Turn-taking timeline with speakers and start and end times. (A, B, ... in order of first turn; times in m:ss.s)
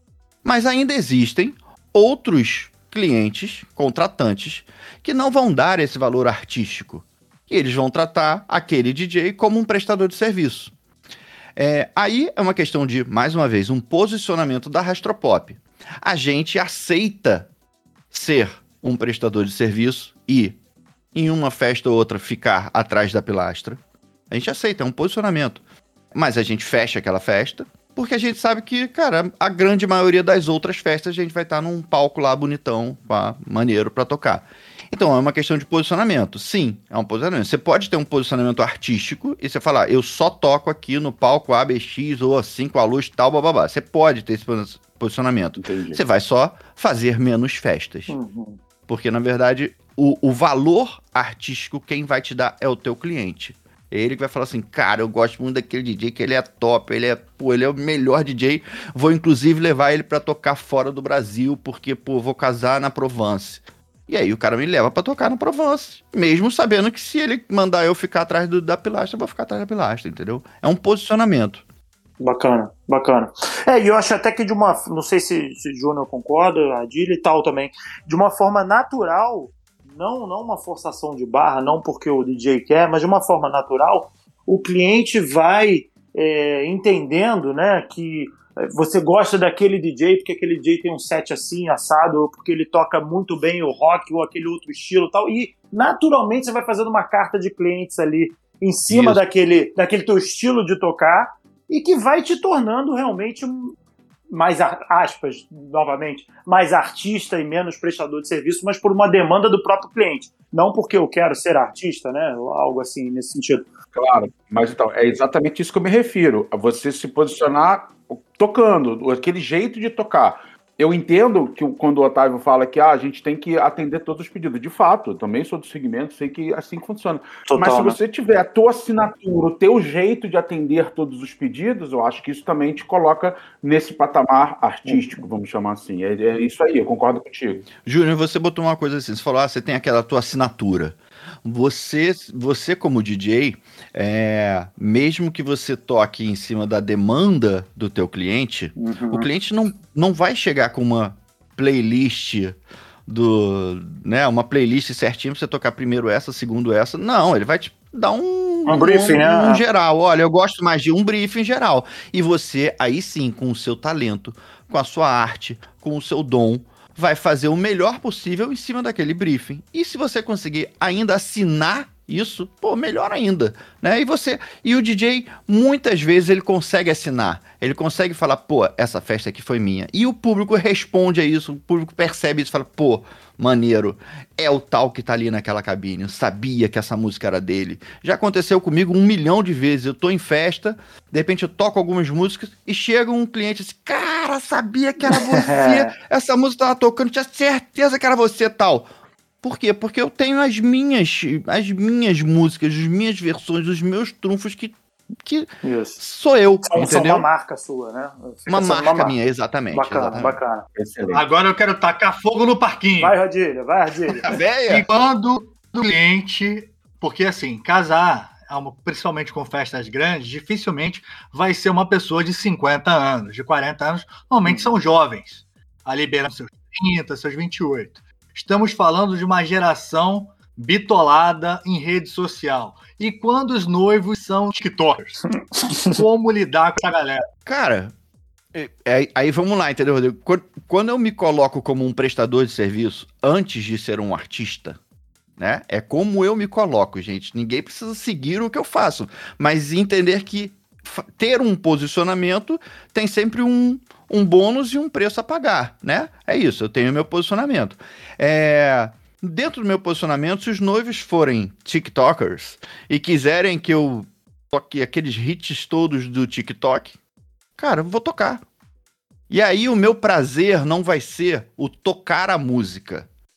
0:00.4-0:10.7 A
0:11.6-0:17.5 A
0:18.1-0:20.6 A
0:21.1-0:23.8 A
0:24.3-0:25.6 A
0:26.1-0:48.2 A
0:45.6-0:46.0 B
0:48.1-0:48.6 C
0:48.9-1:11.6 A
1:12.2-1:43.8 C
1:38.9-1:39.2 B
1:44.3-1:53.7 C
1:53.9-2:17.7 B
2:07.5-2:08.0 C
2:17.8-3:18.9 A
2:28.8-2:29.3 C
2:38.7-2:39.6 C
3:15.1-3:16.0 C
3:19.4-3:27.3 A
3:25.6-3:26.0 C
3:26.6-3:29.2 C
3:28.5-3:30.4 A
3:29.7-3:30.6 C
3:30.8-3:31.2 B
3:31.1-3:33.2 D
3:33.0-3:34.3 C
3:34.1-3:34.9 A
3:34.7-3:55.2 D
3:44.4-3:44.8 C
3:55.9-3:57.2 D
3:57.5-3:57.9 A
3:58.5-4:04.8 A
4:05.4-4:27.0 A
4:27.6-4:28.4 A
4:29.3-4:33.1 A